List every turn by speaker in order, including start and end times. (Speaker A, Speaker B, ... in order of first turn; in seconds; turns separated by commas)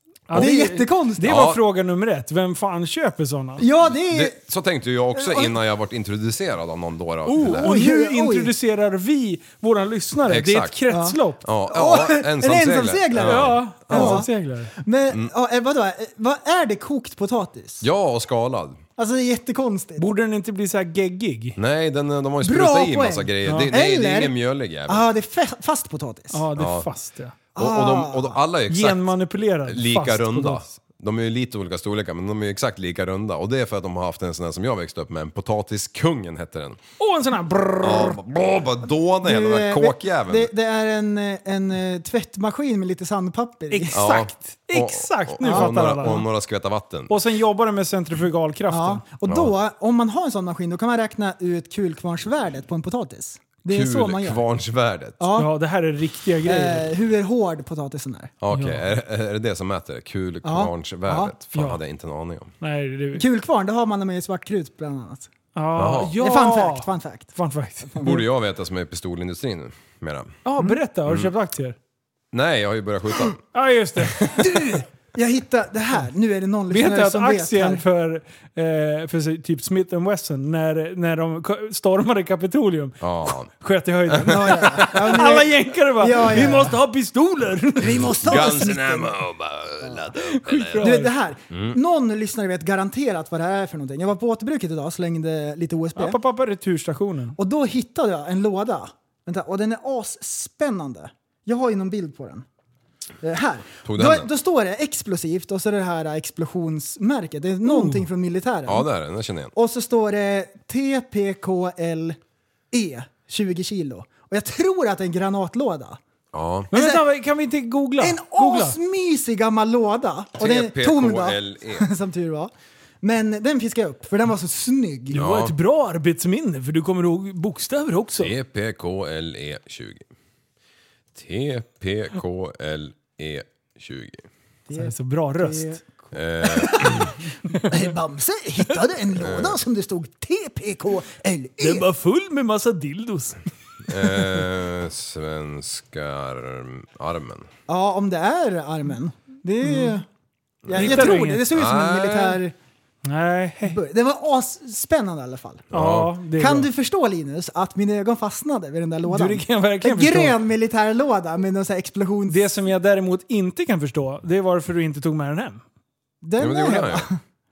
Speaker A: 0.3-3.6, Speaker B: 0.3-1.4, Speaker C: 1.2-1.6, Speaker B: 3.6-4.4, Speaker C: 3.8-7.7, Speaker B: 5.2-5.5, Speaker A: 7.2-11.4, Speaker B: 7.4-8.5, Speaker C: 10.3-10.8, Speaker B: 10.9-11.2, Speaker C: 11.4-14.2, Speaker B: 11.7-17.9, Speaker A: 13.2-14.7, Speaker C: 17.8-18.8, Speaker B: 19.0-20.1, Speaker A: 20.0-21.6, Speaker C: 21.6-25.1, Speaker B: 22.4-24.3, Speaker B: 24.9-26.4, Speaker A: 26.3-27.4, Speaker C: 26.5-26.9, Speaker B: 27.5-28.4, Speaker C: 27.6-29.1, Speaker A: 28.7-30.7, Speaker C: 29.6-36.8, Speaker A: 37.0-38.2, Speaker C: 37.8-40.5, Speaker B: 39.2-44.0, Speaker A: 43.7-46.2, Speaker C: 43.9-47.1, Speaker B: 45.4-45.7, Speaker A: 47.1-49.0, Speaker B: 48.7-54.4, Speaker C: 53.7-55.2, Speaker B: 55.2-55.5, Speaker A: 55.3-56.9, Speaker B: 56.5-58.3, Speaker C: 58.4-62.5, Speaker A: 58.5-58.8, Speaker B: 60.4-61.3, Speaker A: 61.5-61.8, Speaker A: 62.6-63.2, Speaker B: 63.1-65.3, Speaker A: 65.5-68.2, Speaker C: 65.8-66.2, Speaker B: 66.2-67.3, Speaker C: 68.0-70.3, Speaker A: 70.4-71.8, Speaker C: 72.3-73.4, Speaker A: 73.5-74.7, Speaker C: 74.1-74.5, Speaker B: 74.4-77.8, Speaker A: 76.7-88.2, Speaker C: 83.0-83.5, Speaker C: 84.1-85.1, Speaker B: 84.3-86.8, Speaker B: 87.8-89.1, Speaker C: 87.8-90.9, Speaker A: 90.2-91.1, Speaker B: 90.8-96.2, Speaker C: 91.5-91.8, Speaker A: 96.0-97.3, Speaker B: 97.4-102.4, Speaker B: 103.2-108.9, Speaker C: 103.8-104.3, Speaker A: 107.6-108.0, Speaker C: 108.7-109.5, Speaker B: 109.5-112.2, Speaker B: 112.7-116.0, Speaker C: 116.3-116.7, Speaker B: 116.7-117.0, Speaker A: 116.7-118.8, Speaker B: 118.0-122.5, Speaker C: 120.4-121.9, Speaker B: 123.0-125.2, Speaker A: 125.1-128.3, Speaker C: 125.1-125.5, Speaker C: 128.2-130.1, Speaker C: 131.1-134.2, Speaker B: 134.7-135.8, Speaker A: 134.7-135.8, Speaker C: 136.1-137.1, Speaker B: 136.4-141.8, Speaker A: 137.5-137.8, Speaker C: 139.2-139.6, Speaker A: 141.6-143.4, Speaker C: 143.8-147.5, Speaker B: 147.7-150.1, Speaker A: 149.6-149.9, Speaker C: 150.7-152.4, Speaker B: 150.7-152.5, Speaker A: 150.7-151.4, Speaker A: 153.1-153.8, Speaker B: 153.7-155.7, Speaker C: 155.7-156.1, Speaker A: 155.7-156.7, Speaker B: 156.4-162.5, Speaker A: 159.1-160.3, Speaker A: 162.3-165.6, Speaker B: 166.2-167.2, Speaker C: 166.4-167.1